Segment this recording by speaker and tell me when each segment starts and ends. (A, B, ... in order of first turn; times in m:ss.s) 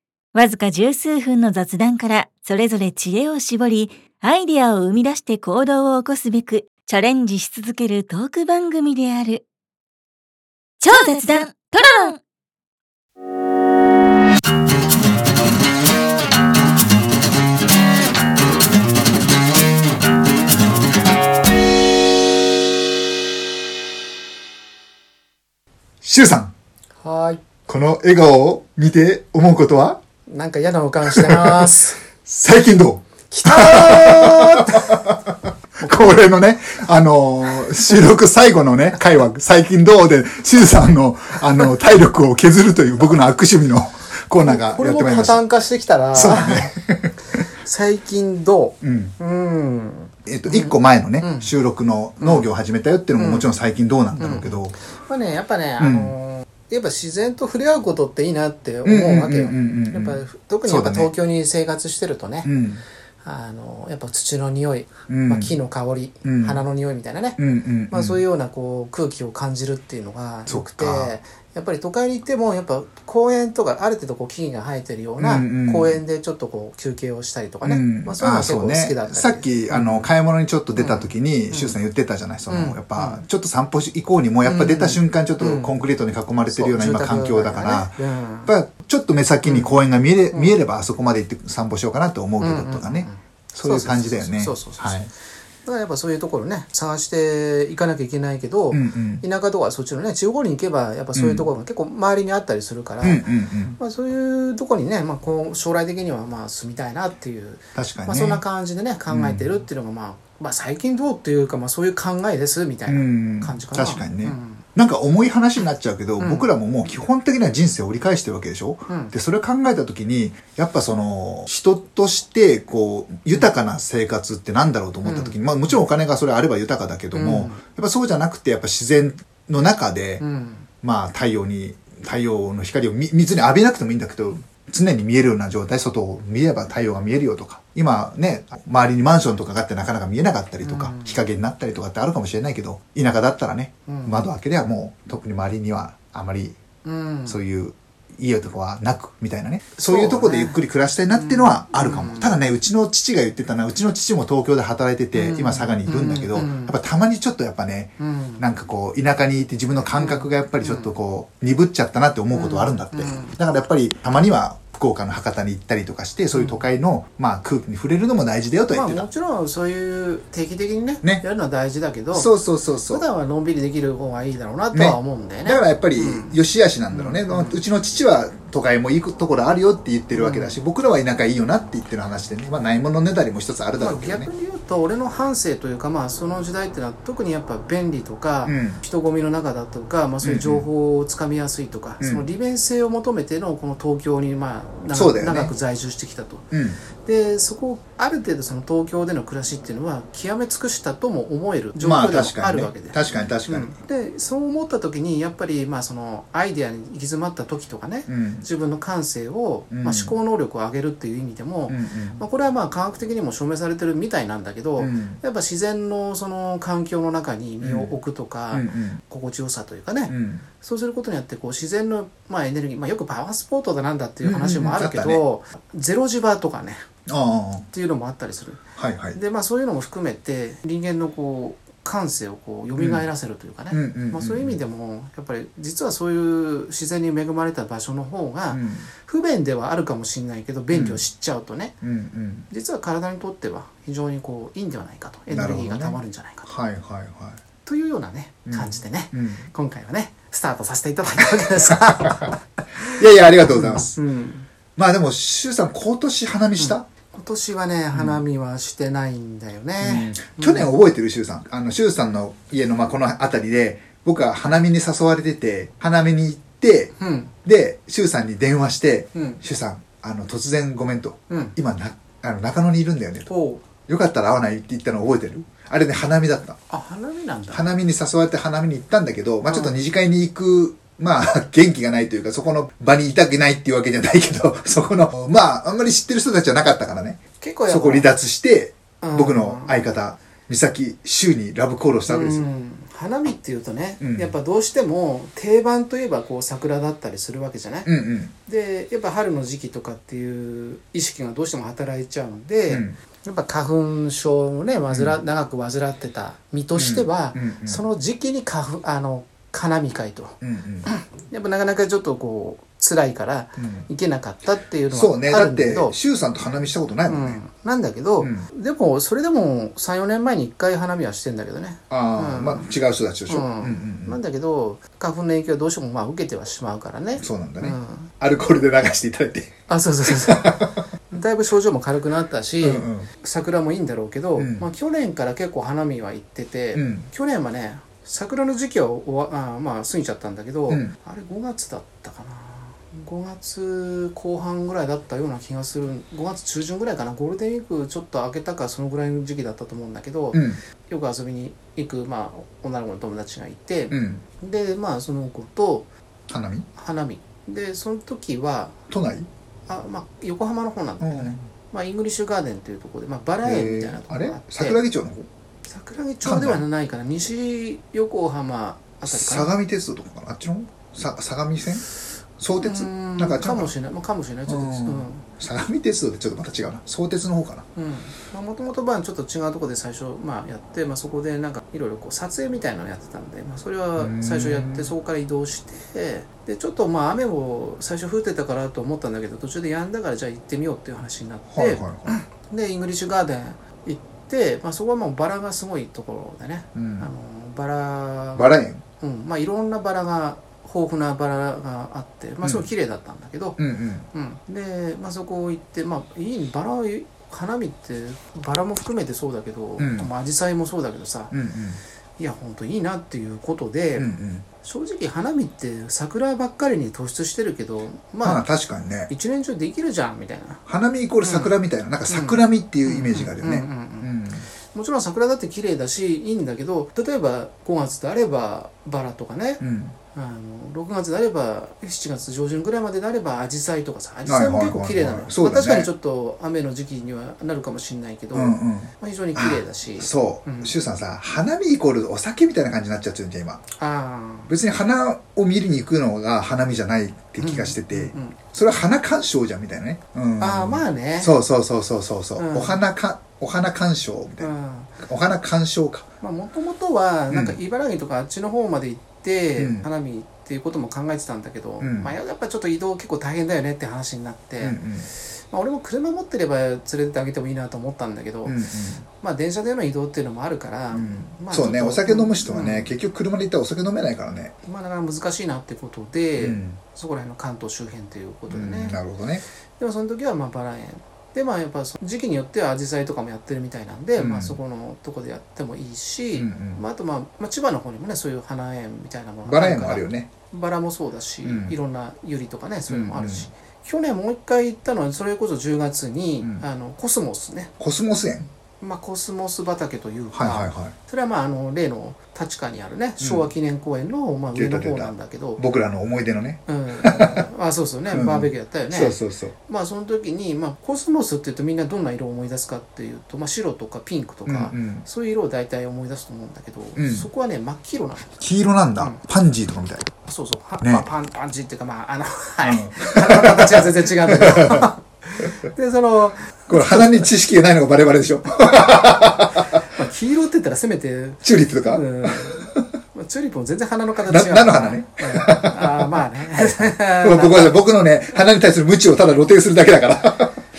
0:00.3-0:09.4 A
0:10.8-0:12.2 A
0:26.0-0:26.5 B
0:27.0-0:27.4 C
0:27.7-0:30.0 B
0:30.3-0:32.0 C
0:31.0-0:31.7 B
0:32.2-0:45.4 B
0:33.3-0:35.0 C
0:44.4-0:46.7 C
0:46.1-0:47.1 B
0:47.6-0:51.5 C
0:48.8-0:49.1 B
0:50.2-0:54.8 B
0:52.2-0:52.5 C
0:53.2-0:53.5 C
0:54.2-1:02.6 C
0:55.8-0:56.1 B
0:58.8-1:01.1 B
1:02.4-1:02.8 B
1:03.2-1:20.1 C
1:05.1-1:05.5 B
1:06.2-1:06.6 B
1:07.4-1:08.2 B
1:10.5-1:11.1 B
1:15.2-1:16.0 B
1:17.6-1:35.1 B
1:20.7-1:21.8 C
1:22.5-1:23.2 C
1:24.4-1:25.8 C
1:26.5-1:28.5 C
1:29.4-1:29.8 C
1:30.3-1:30.6 C
1:32.4-1:35.0 C
1:35.6-1:43.3 C
1:38.7-1:39.2 B
1:41.1-1:41.5 B
1:43.0-1:43.8 B
1:43.8-1:54.6 C
1:47.7-1:48.4 B
1:49.1-1:49.6 B
1:52.9-2:10.2 B
1:56.2-1:56.5 C
1:58.9-1:59.1 C
2:05.0-2:05.8 C
2:07.1-2:07.6 C
2:10.2-2:10.7 C
2:10.8-2:26.6 B
2:20.6-2:21.2 C
2:23.8-2:24.3 C
2:26.8-2:27.4 C
2:27.2-2:49.0 B
2:29.7-2:32.4 C
2:35.1-2:36.8 C
2:38.0-2:38.4 C
2:39.9-2:40.9 C
2:42.3-2:43.4 C
2:46.3-2:46.6 C
2:48.7-2:52.3 C
2:52.1-2:53.0 B
2:52.8-2:56.4 C
2:54.7-3:04.3 B
2:56.9-2:57.6 C
3:00.1-3:00.6 C
3:03.8-3:46.8 C
3:08.4-3:08.8 B
3:10.2-3:10.6 B
3:12.0-3:12.3 B
3:14.9-3:15.5 B
3:16.5-3:16.8 B
3:21.8-3:23.8 B
3:28.1-3:28.4 B
3:29.7-3:30.1 B
3:31.7-3:32.2 B
3:34.8-3:35.2 B
3:37.6-3:37.9 B
3:38.5-3:39.0 B
3:40.1-3:40.4 B
3:44.2-3:45.2 B
3:47.1-3:47.7 B
3:47.7-3:48.6 C
3:48.8-3:49.2 B
3:49.1-4:01.8 C
3:52.8-3:53.1 B
3:53.7-3:54.6 B
3:58.5-3:58.9 B
4:00.7-4:01.0 B
4:01.8-4:02.5 B
4:02.5-4:06.5 C
4:05.3-4:07.4 B
4:07.6-4:14.5 C
4:08.4-4:09.4 B
4:11.7-4:12.3 B
4:12.9-4:13.9 B
4:14.8-4:16.8 B
4:16.6-4:20.7 C
4:17.9-4:18.2 B
4:19.8-4:26.9 B
4:27.0-4:27.3 C
4:27.4-4:33.3 B
4:29.1-4:29.4 C
4:31.3-4:31.5 C
4:33.3-4:33.6 C
4:33.8-4:36.6 B
4:36.7-4:37.7 C
4:37.5-4:52.5 B
4:39.4-4:39.8 C
4:47.4-4:48.1 C
4:49.0-4:49.8 C
4:52.1-4:57.9 C
4:54.0-4:54.3 B
4:57.8-4:58.3 B
4:58.4-5:16.0 C
5:02.7-5:03.0 B
5:04.9-5:05.2 B
5:06.7-5:07.8 B
5:10.4-5:10.9 B
5:13.6-5:13.9 B
5:14.9-5:17.4 B
5:17.0-5:22.7 C
5:18.2-5:18.5 B
5:21.9-5:24.2 B
5:23.3-5:28.1 C
5:27.2-5:29.5 B
5:29.7-5:55.9 C
5:30.0-5:30.7 B
5:32.6-5:33.1 B
5:34.4-5:34.6 B
5:36.7-5:37.1 B
5:40.7-5:40.9 B
5:50.3-5:50.6 B
5:53.9-5:54.2 B
5:56.3-5:56.7 B
5:56.7-5:58.8 C
5:58.9-5:59.3 B
5:59.7-6:04.8 C
6:01.0-6:01.5 B
6:03.4-6:05.3 B
6:05.6-6:09.5 C
6:06.2-6:06.6 B
6:09.1-6:11.9 B
6:12.4-6:13.7 B
6:12.6-6:15.2 C
6:14.5-6:17.6 B
6:17.8-6:43.6 C
6:24.0-6:24.9 B
6:31.5-6:32.1 B
6:36.7-6:37.1 B
6:38.3-6:38.8 B
6:43.6-6:44.1 B
6:44.1-6:51.3 C
6:49.8-6:50.1 B
6:51.3-6:51.8 B
6:52.2-6:58.4 C
6:54.0-6:54.4 B
6:58.2-6:59.1 B
6:59.1-7:00.6 C
7:00.7-7:04.5 B
7:01.2-7:01.5 C
7:02.1-7:04.1 C
7:04.7-7:09.6 C
7:09.6-7:10.0 B
7:10.1-7:20.7 C
7:14.2-7:15.9 B
7:18.3-7:23.6 B
7:23.8-7:24.5 C
7:24.5-7:34.5 B
7:27.4-7:28.4 C
7:30.4-7:31.3 C
7:32.4-7:32.8 C
7:34.4-7:35.0 C
7:35.0-7:36.1 B
7:36.2-7:53.0 C
7:37.3-7:37.6 B
7:39.6-7:39.8 B
7:41.8-7:42.1 B
7:44.6-7:45.1 B
7:48.4-7:49.0 B
7:50.9-7:54.5 B
7:54.6-7:59.0 C
7:56.4-7:56.8 B
7:58.5-7:59.4 B
7:59.8-8:17.7 C
8:04.2-8:04.6 B
8:06.3-8:06.8 B
8:09.4-8:10.3 B
8:11.4-8:11.8 B
8:12.9-8:13.5 B
8:17.8-8:18.5 B
8:18.8-8:25.6 C
8:20.3-8:20.9 B
8:23.2-8:23.5 B
8:24.5-8:27.5 B
8:26.6-8:38.3 C
8:28.1-8:29.6 B
8:34.4-8:35.0 B
8:37.0-8:37.3 B
8:38.4-8:40.1 B
8:40.2-8:47.3 C
8:40.8-8:41.1 B
8:42.6-8:44.9 B
8:46.7-8:49.6 B
8:49.7-8:57.8 C
8:51.4-8:52.8 B
8:54.2-9:00.6 B